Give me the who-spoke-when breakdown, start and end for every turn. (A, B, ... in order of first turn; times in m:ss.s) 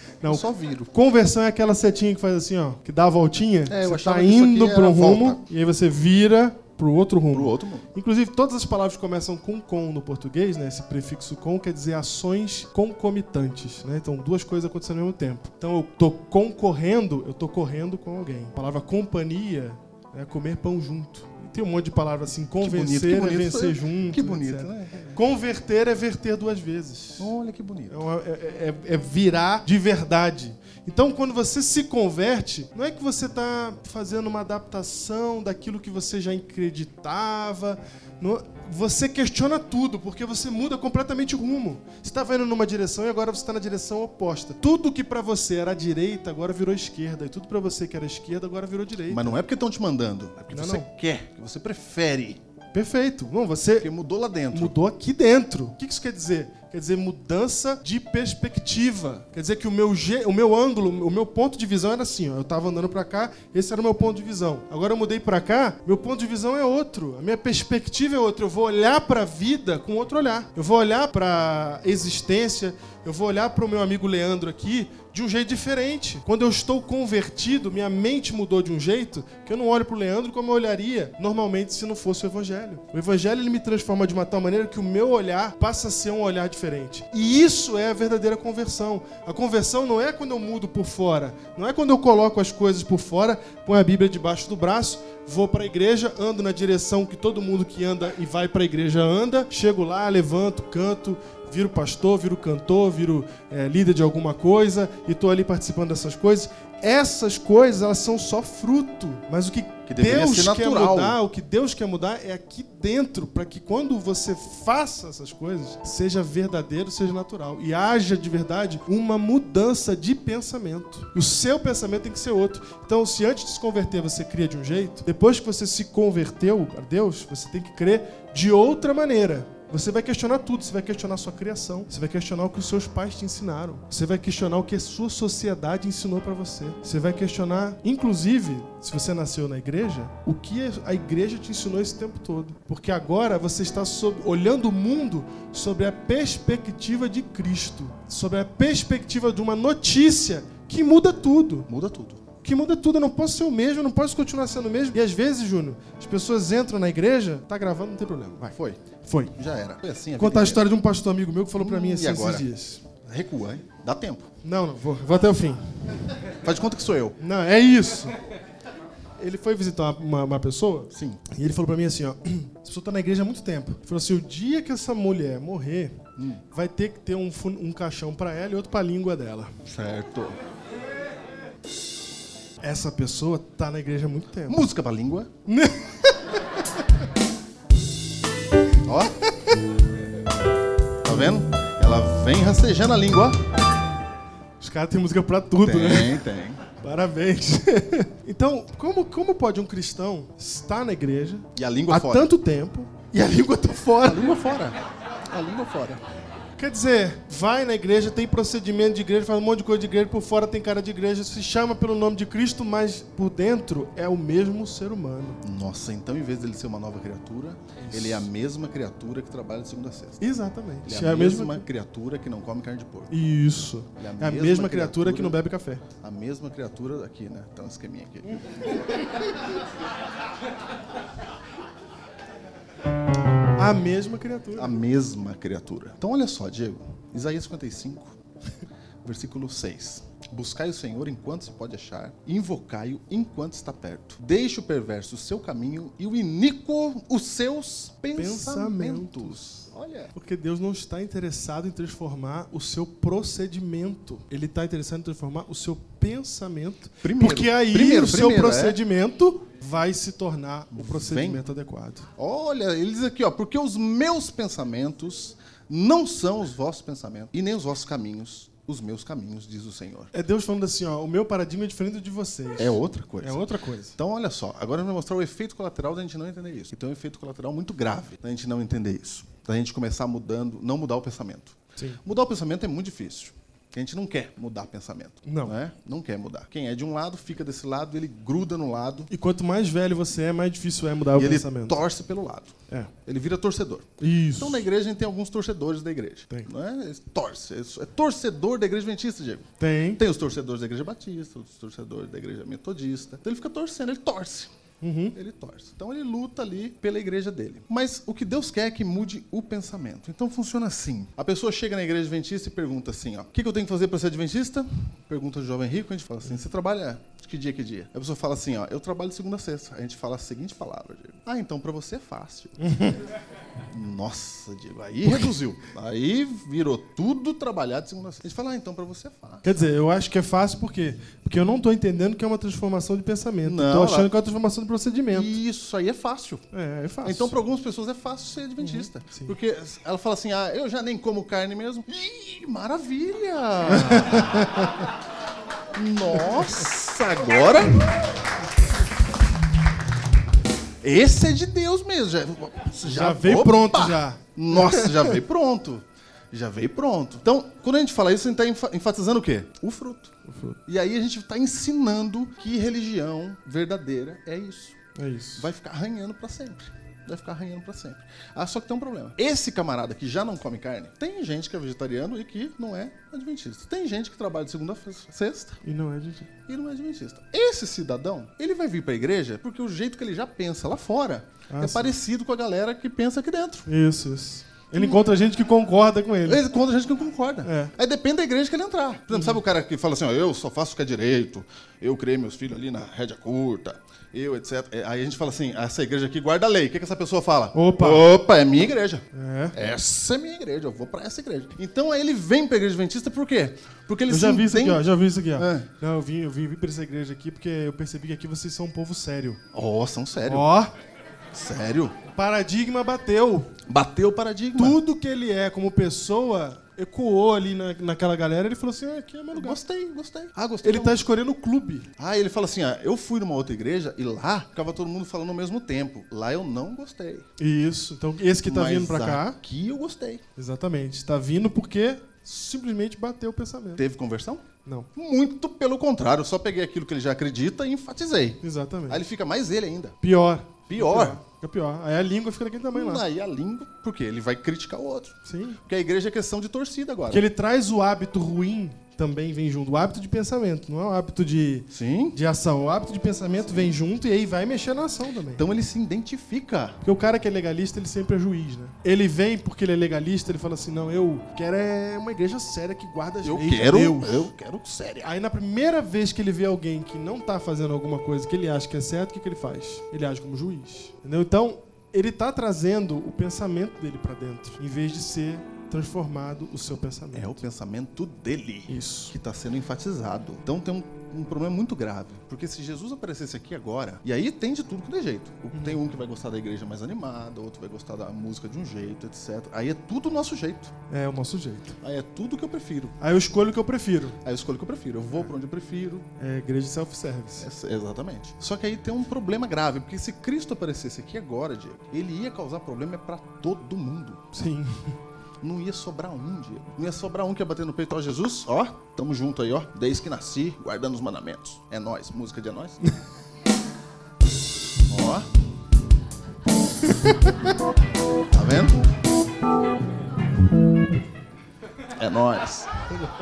0:00.2-0:27.3 A
0:00.3-0:00.9 B
0:03.7-0:05.4 B
0:07.3-0:07.9 B
0:22.6-0:25.1 B
0:27.2-0:28.0 B
0:27.9-0:49.4 A
0:49.1-0:52.4 B
0:50.5-0:50.9 A
0:52.7-0:53.9 A
0:53.8-0:54.8 B
0:54.5-2:31.7 A
1:49.9-1:51.2 B
2:31.7-2:32.2 B
2:32.4-2:39.4 A
2:38.5-2:38.8 B
2:39.4-2:40.7 B
2:40.2-2:42.8 A
2:41.6-2:44.3 B
2:44.4-2:45.7 A
2:46.4-2:47.2 B
2:47.2-2:48.2 A
2:49.2-2:56.0 A
2:50.9-2:51.2 B
2:56.2-2:56.4 B
2:56.5-2:59.5 A
2:59.6-3:00.4 B
3:02.6-3:04.7 A
3:04.5-3:05.3 B
3:05.5-3:07.1 A
3:08.8-3:09.2 B
3:11.0-3:13.4 B
3:14.6-3:16.2 A
3:15.6-3:16.6 B
3:16.8-3:24.4 A
3:21.6-3:22.3 B
3:24.0-3:24.8 B
3:25.3-3:26.0 B
3:26.6-3:35.4 A
3:35.4-3:40.3 B
3:37.8-3:38.3 A
3:40.2-3:41.6 A
3:40.8-3:43.1 B
3:43.1-3:45.8 A
3:44.0-3:45.4 B
3:46.0-3:49.1 B
3:53.6-3:54.7 A
3:54.6-3:58.2 B
3:59.0-4:10.1 B
4:08.2-4:09.4 A
4:10.1-4:22.1 A
4:17.0-4:18.8 B
4:20.7-4:21.4 B
4:22.2-4:30.1 B
4:30.1-4:34.0 A
4:32.6-4:49.1 B
4:45.3-4:45.5 A
4:49.1-4:51.8 A
4:51.2-5:04.5 B
4:54.0-4:54.7 A
4:59.6-5:00.0 A
5:04.8-5:05.2 A
5:05.1-5:22.9 B
5:22.6-5:23.0 A
5:23.7-5:29.6 B
5:25.0-5:25.3 A
5:29.4-5:35.3 A
5:33.4-5:34.1 B
5:35.1-5:36.4 B
5:36.5-5:37.4 A
5:37.0-5:44.6 B
5:38.6-5:39.4 A
5:43.7-5:44.9 A
5:45.7-5:47.8 B
5:50.8-6:00.1 B
5:52.8-5:55.2 A
6:00.3-6:00.6 A
6:00.7-6:04.8 B
6:05.0-6:05.5 A
6:05.4-6:15.6 B
6:15.6-6:16.3 A
6:16.5-6:23.7 B
6:21.5-6:21.9 A
6:23.7-6:26.4 A
6:24.8-6:25.1 B
6:26.2-6:45.7 B
6:27.4-6:27.7 A
6:29.1-6:29.4 A
6:37.5-6:38.1 A
6:39.1-6:39.6 A
6:44.1-6:49.4 A
6:49.5-6:50.5 B
6:50.3-6:50.7 A
6:51.3-6:52.0 B
6:52.1-6:53.5 A
6:53.7-6:54.8 B
6:54.6-6:59.6 A
6:59.3-7:01.0 B
7:00.6-7:01.9 A
7:02.0-7:07.3 B
7:07.4-7:09.4 A
7:08.4-7:10.2 B
7:10.4-7:13.8 A
7:13.8-7:20.0 B
7:18.4-7:19.0 A
7:20.0-7:23.0 A
7:20.7-7:21.2 B
7:22.7-7:27.2 B
7:25.2-7:25.6 A
7:27.1-7:35.5 A
7:31.7-7:32.2 B
7:33.5-7:33.7 B
7:35.4-7:36.8 B
7:36.8-7:44.3 A
7:43.2-7:45.1 B
7:45.0-7:57.4 A
7:57.1-8:10.7 B
7:58.7-7:59.1 A
8:05.5-8:05.8 A
8:10.9-8:11.8 A
8:11.8-8:13.0 B
8:13.0-8:14.2 A
8:14.2-8:16.1 B
8:16.2-8:17.5 A
8:17.4-8:24.3 B
8:24.3-8:25.0 A
8:25.4-8:32.8 B
8:34.9-8:35.3 B
8:38.3-8:38.8 B
8:42.0-8:42.7 B